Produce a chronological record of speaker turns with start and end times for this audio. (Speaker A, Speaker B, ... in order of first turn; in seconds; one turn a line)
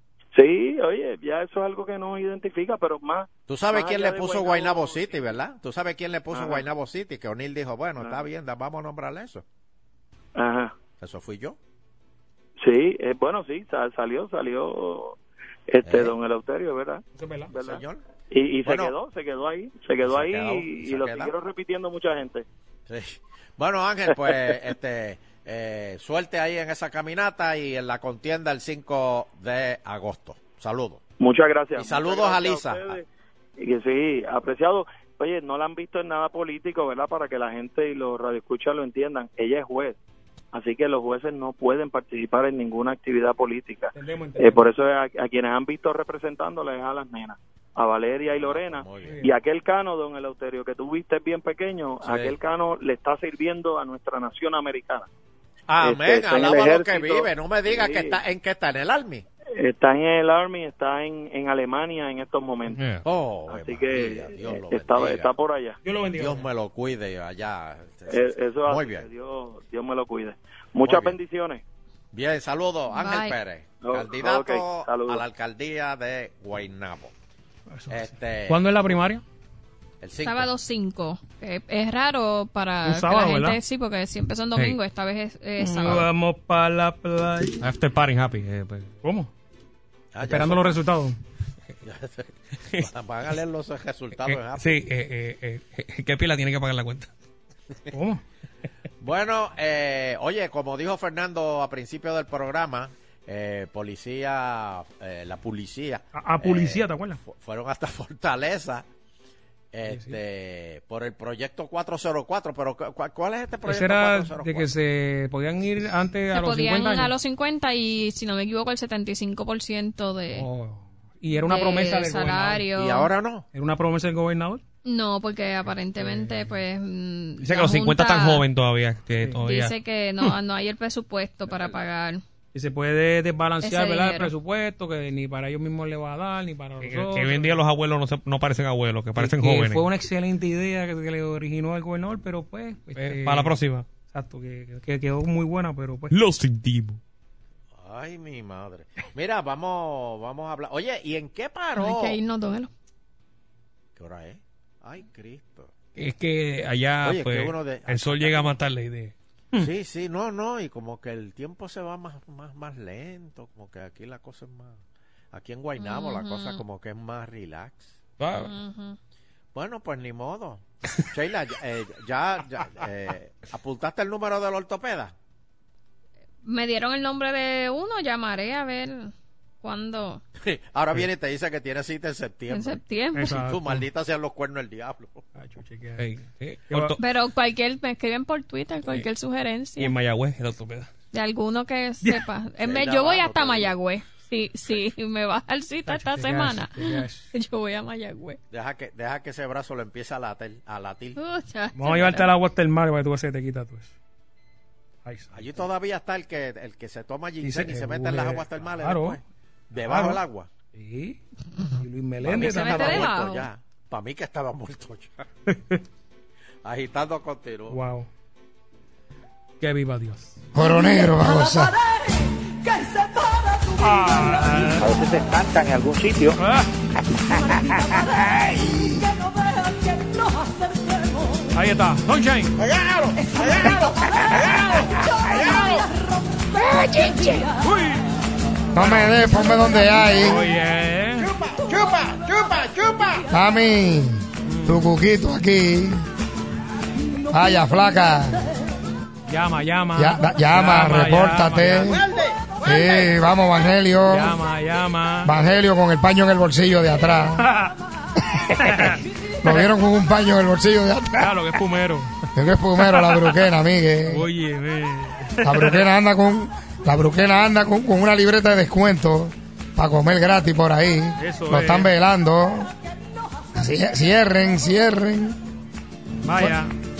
Speaker A: 0.3-5.2
Speaker B: 3.5-9.4
Speaker A: 6.3-6.7
Speaker A: 10.3-10.8
Speaker B: 11.0-11.6
Speaker A: 12.6-15.2
Speaker A: 15.7-22.4
Speaker B: 15.8-16.1
Speaker C: 17.1-17.5
Speaker B: 17.5-18.0
Speaker B: 18.6-18.9
Speaker B: 20.0-21.3
Speaker B: 22.9-31.0
Speaker A: 31.2-33.0
Speaker B: 31.7-33.0
Speaker A: 33.6-40.0
Speaker A: 40.5-55.1
Speaker C: 43.9-44.7
Speaker B: 48.3-49.2
Speaker C: 49.0-49.3
Speaker B: 52.0-52.4
Speaker B: 55.7-59.2
Speaker A: 55.8-58.2
Speaker A: 59.6-62.8
Speaker D: 62.7-63.0
Speaker B: 63.0-65.3
Speaker A: 63.5-65.8
Speaker C: 65.8-66.4
Speaker B: 66.2-69.1
Speaker A: 68.1-71.6
Speaker B: 70.8-71.2
Speaker B: 72.1-77.1
Speaker E: 72.9-73.3
Speaker A: 73.8-75.2
Speaker C: 77.7-79.2
Speaker B: 77.9-78.8
Speaker B: 80.0-80.5
Speaker E: 80.2-86.0
Speaker C: 82.8-83.6
Speaker C: 85.6-87.6
Speaker D: 87.6-88.9
Speaker C: 89.0-89.3
Speaker B: 90.1-90.8
Speaker C: 90.2-91.2
Speaker B: 91.8-94.8
Speaker D: 94.2-97.1
Speaker C: 97.9-98.2
Speaker B: 99.0-108.8
Speaker C: 106.1-107.2
Speaker B: 109.7-114.7
Speaker C: 109.9-110.2
Speaker C: 113.7-117.1
Speaker E: 116.3-120.5
Speaker C: 120.3-122.6
Speaker E: 121.4-123.1
Speaker B: 122.7-123.5
Speaker C: 123.5-124.6
Speaker E: 124.8-128.4
Speaker C: 126.0-126.5
Speaker D: 127.4-129.7
Speaker E: 129.4-132.2
Speaker C: 132.5-137.6
Speaker E: 133.6-134.3
Speaker D: 136.8-139.8
Speaker C: 139.2-143.6
Speaker D: 142.9-143.8
Speaker C: 144.1-146.1
Speaker D: 146.1-147.0
Speaker B: 147.7-152.2
Speaker E: 151.8-152.7
Speaker B: 153.9-155.7
Speaker D: 156.0-159.1
Speaker B: 157.0-158.6
Speaker B: 159.6-167.9
Speaker E: 165.8-166.6
Speaker D: 168.2-168.5
Speaker E: 168.3-169.0
Speaker B: 169.5-175.1
Speaker E: 176.4-180.2
Speaker B: 180.4-182.8
Speaker E: 182.5-183.4
Speaker C: 183.1-183.8
Speaker B: 183.3-185.2
Speaker C: 185.3-186.1
Speaker D: 186.0-187.0
Speaker C: 186.7-186.9
Speaker E: 187.0-189.9
Speaker D: 189.8-190.9
Speaker E: 191.1-198.4
Speaker B: 192.6-193.8
Speaker C: 195.8-197.3
Speaker B: 198.5-201.2
Speaker E: 201.2-202.3
Speaker C: 201.8-203.9
Speaker C: 205.0-205.5
Speaker B: 205.3-210.5
Speaker C: 207.4-209.2
Speaker C: 209.9-210.2
Speaker C: 210.7-211.2
Speaker C: 211.8-213.1
Speaker B: 212.2-215.2
Speaker E: 212.4-213.5
Speaker C: 215.5-215.8
Speaker B: 216.6-217.8
Speaker C: 217.7-218.1
Speaker C: 219.6-220.4
Speaker F: 220.5-221.7
Speaker G: 220.8-224.7
Speaker C: 223.8-224.9
Speaker C: 226.4-226.7
Speaker G: 227.4-228.4
Speaker F: 228.3-229.0
Speaker G: 229.0-231.4
Speaker C: 231.5-232.5
Speaker G: 233.2-234.4
Speaker F: 234.1-235.6
Speaker G: 235.1-235.9
Speaker F: 236.6-237.4
Speaker C: 237.6-238.0
Speaker F: 238.7-240.4
Speaker C: 238.8-239.2
Speaker C: 240.0-241.3
Speaker G: 241.7-243.1
Speaker F: 243.3-246.1
Speaker C: 244.4-244.9
Speaker F: 247.3-248.4
Speaker C: 249.3-252.0
Speaker F: 250.0-252.1
Speaker F: 252.6-254.3
Speaker C: 254.0-255.4
Speaker F: 255.2-257.4
Speaker C: 257.3-257.7
Speaker F: 258.3-258.9
Speaker C: 258.6-259.7
Speaker F: 259.4-261.4
Speaker C: 261.2-263.5
Speaker F: 262.3-264.2
Speaker C: 264.1-265.9
Speaker F: 265.4-272.7
Speaker C: 271.2-271.9
Speaker F: 273.6-275.4
Speaker C: 276.2-276.7